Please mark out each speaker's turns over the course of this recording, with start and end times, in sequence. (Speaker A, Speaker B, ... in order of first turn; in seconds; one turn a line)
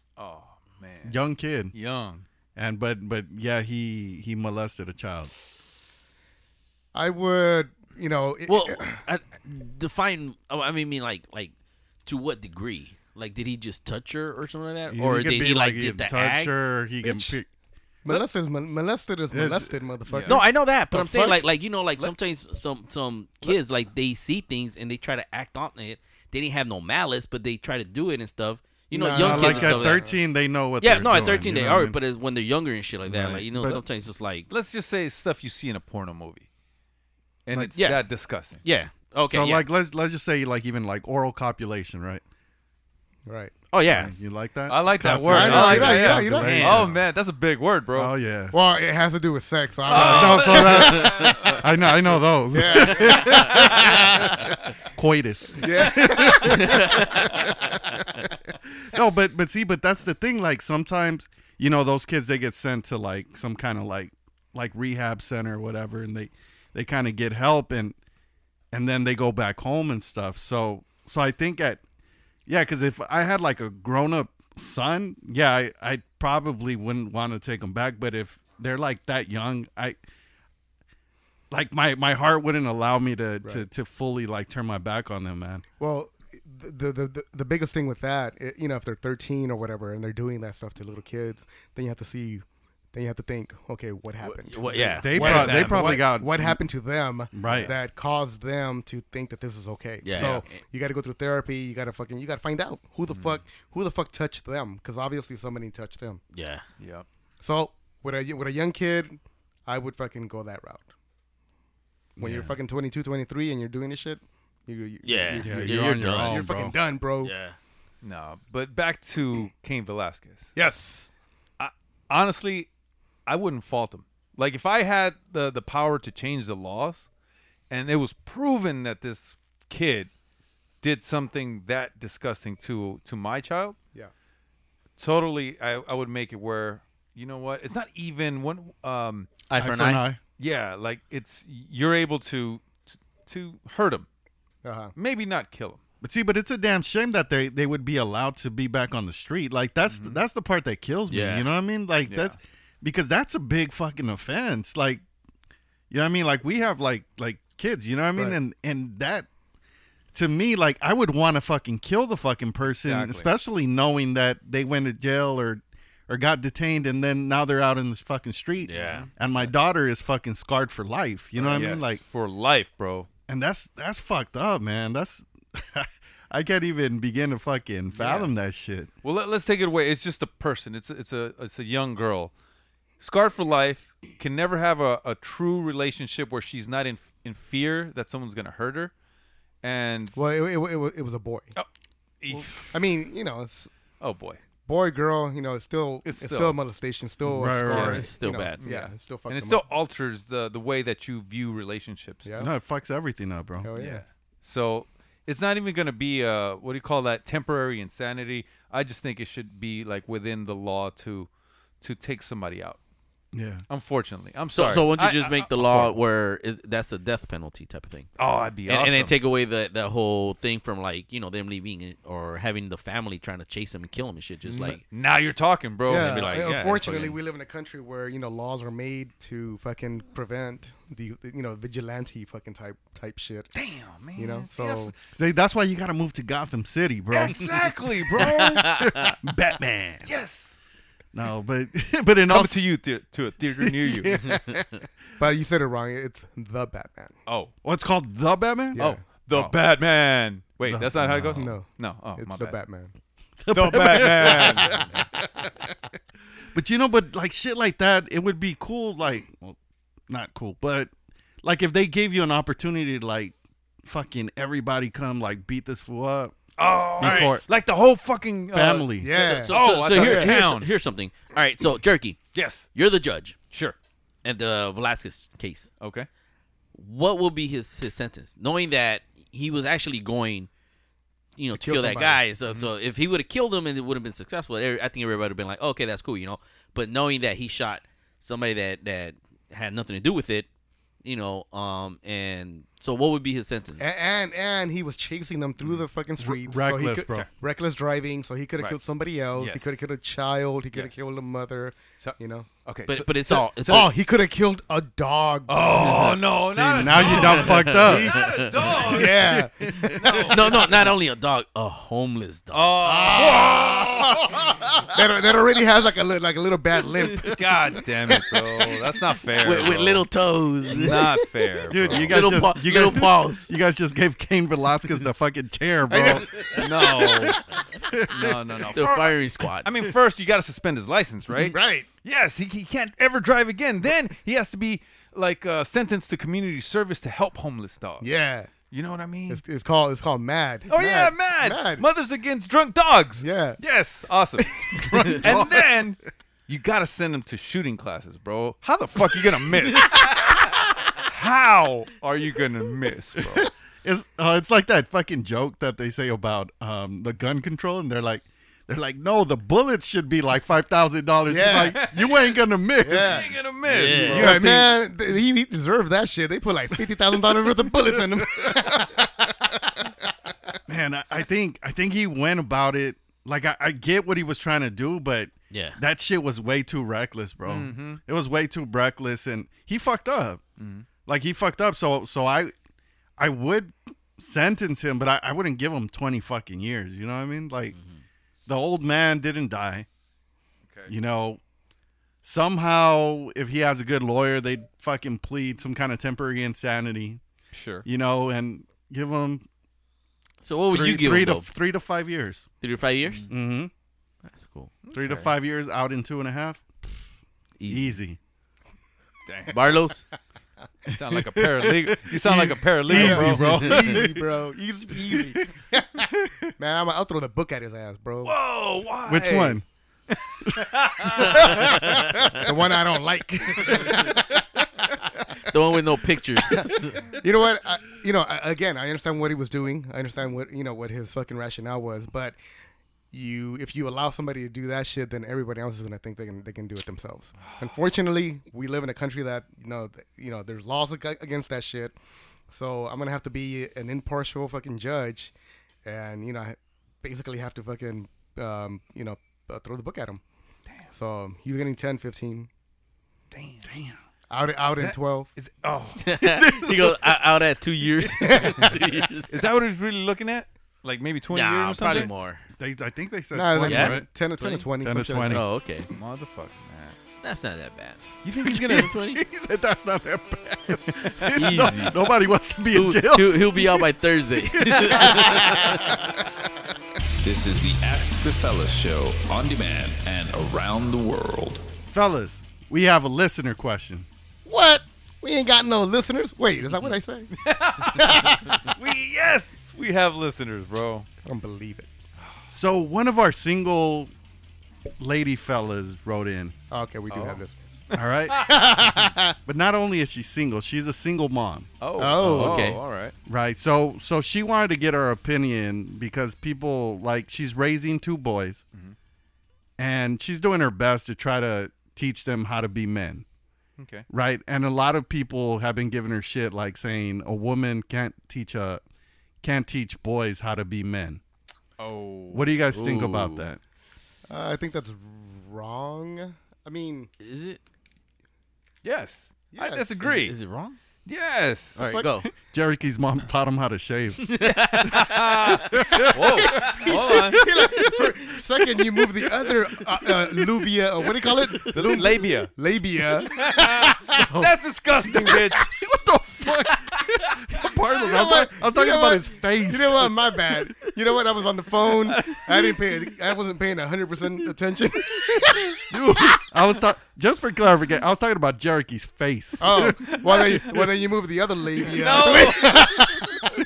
Speaker A: 0.2-1.2
Speaker B: 1.0-1.7
Speaker A: 1.7-2.2
Speaker B: 2.5-5.3
Speaker C: 6.9-9.0
Speaker D: 8.5-11.5
Speaker D: 12.1-16.5
Speaker B: 14.9-17.5
Speaker C: 18.0-21.4
Speaker B: 19.3-19.8
Speaker A: 20.1-20.4
Speaker D: 20.2-30.0
Speaker C: 28.9-30.2
Speaker B: 29.2-32.0
Speaker D: 30.8-34.5
Speaker B: 33.1-33.8
Speaker A: 34.5-36.5
Speaker A: 37.5-38.6
Speaker D: 37.7-38.0
Speaker D: 38.6-39.6
Speaker B: 39.3-42.2
Speaker C: 43.2-43.5
Speaker D: 43.7-44.1
Speaker B: 43.9-47.0
Speaker A: 44.7-48.1
Speaker C: 45.2-46.9
Speaker B: 47.9-48.5
Speaker C: 48.5-51.6
Speaker A: 49.9-51.6
Speaker B: 49.9-54.4
Speaker C: 52.5-54.5
Speaker B: 54.9-57.9
Speaker C: 55.6-57.3
Speaker D: 56.5-57.1
Speaker B: 58.8-68.0
Speaker B: 68.7-71.8
Speaker B: 72.5-80.0
Speaker B: 81.5-85.6
Speaker C: 85.8-106.2
Speaker D: 94.2-95.6
Speaker B: 95.0-96.6
Speaker A: 95.1-96.0
Speaker B: 97.3-97.7
Speaker D: 100.0-100.6
Speaker A: 103.1-103.4
Speaker D: 106.3-106.6
Speaker A: 106.8-107.0
Speaker C: 107.4-110.9
Speaker B: 112.2-112.5
Speaker C: 112.2-117.3
Speaker D: 115.0-116.4
Speaker B: 115.4-116.8
Speaker D: 117.2-117.5
Speaker A: 118.0-120.5
Speaker C: 120.5-121.1
Speaker A: 121.6-122.7
Speaker A: 123.3-127.1
Speaker A: 127.7-130.1
Speaker A: 130.8-133.8
Speaker A: 135.0-139.4
Speaker D: 139.5-140.0
Speaker B: 139.6-140.2
Speaker A: 140.4-144.1
Speaker C: 144.6-144.9
Speaker A: 144.9-145.8
Speaker B: 146.0-155.0
Speaker A: 149.9-150.2
Speaker D: 151.1-151.5
Speaker A: 152.1-152.4
Speaker B: 155.9-159.3
Speaker B: 160.1-172.0
Speaker A: 162.8-163.3
Speaker D: 168.6-169.1
Speaker A: 168.7-169.5
Speaker A: 171.4-173.1
Speaker B: 173.3-178.9
Speaker A: 177.9-178.3
Speaker A: 179.0-182.3
Speaker A: 183.0-188.9
Speaker A: 189.6-190.2
Speaker C: 190.1-191.5
Speaker A: 192.2-192.7
Speaker C: 192.3-193.7
Speaker A: 194.0-194.4
Speaker C: 194.7-199.6
Speaker A: 196.0-196.6
Speaker B: 197.2-198.0
Speaker A: 197.7-198.0
Speaker D: 197.7-198.6
Speaker A: 198.6-202.2
Speaker C: 202.2-202.5
Speaker B: 202.4-203.7
Speaker C: 203.6-204.0
Speaker A: 203.8-211.3
Speaker A: 211.8-212.8
Speaker B: 213.3-213.6
Speaker A: 213.7-216.0
Speaker D: 214.5-218.1
Speaker A: 218.2-219.1
Speaker D: 218.7-224.8
Speaker A: 224.5-226.7
Speaker C: 225.9-233.5
Speaker D: 225.9-227.2
Speaker A: 233.5-234.9
Speaker C: 234.2-234.9
Speaker B: 235.1-237.6
Speaker A: 237.1-239.1
Speaker B: 238.2-240.1
Speaker D: 238.5-239.1
Speaker A: 240.1-240.6
Speaker B: 241.1-242.6
Speaker A: 242.3-244.2
Speaker B: 243.5-244.8
Speaker C: 245.2-247.1
Speaker B: 247.6-249.6
Speaker C: 248.7-249.0
Speaker A: 248.8-252.6
Speaker B: 250.6-251.5
Speaker C: 251.3-252.9
Speaker B: 253.4-255.2
Speaker A: 253.5-254.8
Speaker C: 253.9-254.9
Speaker B: 256.5-259.6
Speaker B: 260.1-260.9
Speaker B: 261.4-266.4
Speaker A: 266.6-268.9
Speaker B: 267.0-267.4
Speaker B: 268.5-269.1
Speaker C: 269.0-270.3
Speaker D: 269.1-272.2
Speaker A: 269.5-270.7
Speaker A: 272.3-272.6
Speaker D: 272.7-273.4
Speaker A: 273.5-273.8
Speaker D: 274.2-275.7
Speaker A: 275.8-276.1
Speaker D: 276.7-280.5
Speaker D: 281.4-290.5
Speaker C: 281.5-282.2
Speaker D: 291.0-293.8
Speaker C: 293.8-302.5
Speaker B: 296.2-297.3
Speaker A: 299.3-299.8
Speaker A: 302.0-303.9
Speaker D: 302.9-303.9
Speaker C: 303.6-306.1
Speaker A: 305.5-310.8
Speaker D: 305.8-306.2
Speaker B: 306.5-310.1
Speaker D: 307.0-308.5
Speaker C: 308.9-310.6
Speaker D: 310.2-312.8
Speaker A: 312.5-314.3
Speaker C: 312.8-317.4
Speaker A: 317.3-320.1
Speaker D: 319.4-321.0
Speaker A: 320.7-322.3
Speaker B: 321.7-327.2
Speaker D: 321.9-323.5
Speaker C: 325.9-327.3
Speaker A: 326.5-327.4
Speaker B: 327.9-328.4
Speaker A: 328.1-338.1
Speaker D: 328.7-329.7
Speaker C: 331.4-331.9
Speaker C: 338.0-338.5
Speaker A: 338.7-339.4
Speaker C: 339.3-341.8
Speaker A: 340.7-353.5
Speaker C: 343.2-343.6
Speaker B: 344.6-345.9
Speaker B: 353.2-364.8
Speaker C: 361.3-361.9
Speaker A: 361.4-362.3
Speaker C: 362.8-363.3
Speaker A: 362.9-364.4
Speaker D: 363.7-364.3
Speaker C: 364.1-369.9
Speaker B: 368.3-368.6
Speaker B: 370.7-380.4
Speaker D: 375.5-375.8
Speaker A: 377.4-378.0
Speaker A: 380.6-380.9
Speaker B: 381.1-382.5
Speaker B: 383.2-387.8
Speaker B: 388.5-389.9
Speaker B: 390.9-391.4
Speaker B: 392.2-397.2
Speaker A: 397.5-397.9
Speaker B: 397.8-399.4
Speaker D: 400.4-401.5
Speaker B: 400.7-402.5
Speaker D: 402.6-403.2
Speaker A: 403.0-403.3
Speaker B: 403.3-403.7
Speaker D: 404.3-404.7
Speaker A: 404.9-405.3
Speaker B: 404.9-407.0
Speaker D: 407.6-407.9
Speaker B: 407.7-408.2
Speaker A: 409.3-409.8
Speaker D: 409.5-410.0
Speaker A: 410.9-414.1
Speaker B: 410.9-414.2
Speaker C: 412.9-418.3
Speaker A: 418.2-422.0
Speaker B: 419.0-419.6
Speaker B: 421.1-421.6
Speaker C: 421.2-424.4
Speaker D: 425.5-427.0
Speaker C: 426.5-432.4
Speaker C: 433.1-441.9
Speaker C: 442.5-445.3
Speaker C: 445.8-450.2
Speaker C: 450.9-452.5
Speaker A: 453.3-453.7
Speaker B: 453.6-454.0
Speaker C: 454.3-455.3
Speaker A: 454.8-456.1
Speaker D: 456.0-459.3
Speaker B: 456.2-457.1
Speaker C: 458.2-458.8
Speaker A: 459.3-462.1
Speaker D: 461.3-462.4
Speaker B: 462.6-464.1
Speaker C: 463.3-465.4
Speaker D: 463.6-464.6
Speaker B: 464.8-465.4
Speaker D: 465.3-465.9
Speaker A: 465.9-467.0
Speaker D: 467.2-468.0
Speaker A: 468.2-468.9
Speaker B: 468.4-473.9
Speaker D: 468.7-469.2
Speaker A: 471.2-471.9
Speaker D: 471.4-471.9
Speaker D: 472.7-475.9
Speaker B: 474.6-476.1
Speaker E: 477.2-481.6
Speaker B: 481.9-484.1
Speaker C: 484.4-488.7
Speaker A: 487.4-491.1
Speaker C: 491.2-491.9
Speaker B: 492.5-494.1
Speaker B: 495.0-496.6
Speaker C: 496.7-497.7
Speaker A: 497.1-498.6
Speaker B: 497.9-498.5
Speaker C: 498.4-499.4
Speaker B: 499.4-501.7
Speaker A: 501.8-503.1
Speaker C: 502.0-502.7
Speaker D: 502.2-502.8
Speaker B: 503.2-508.6
Speaker B: 509.8-513.2
Speaker A: 513.8-514.0
Speaker B: 514.1-518.8
Speaker B: 519.4-521.2
Speaker A: 521.8-522.5
Speaker B: 522.3-523.6
Speaker D: 522.7-523.5
Speaker C: 524.3-527.1
Speaker D: 527.2-527.6
Speaker A: 528.8-530.3
Speaker C: 529.5-530.1
Speaker D: 530.1-530.8
Speaker A: 531.0-531.8
Speaker D: 531.8-532.3
Speaker C: 531.8-532.1
Speaker B: 532.3-535.1
Speaker D: 534.3-535.1
Speaker A: 534.8-537.4
Speaker B: 535.7-538.1
Speaker C: 536.8-544.4
Speaker A: 541.7-542.5
Speaker A: 543.3-545.7
Speaker B: 545.0-550.2
Speaker C: 548.0-555.8
Speaker A: 552.2-552.6
Speaker B: 555.9-560.2
Speaker C: 559.6-563.5
Speaker A: 560.1-560.8
Speaker A: 561.9-563.0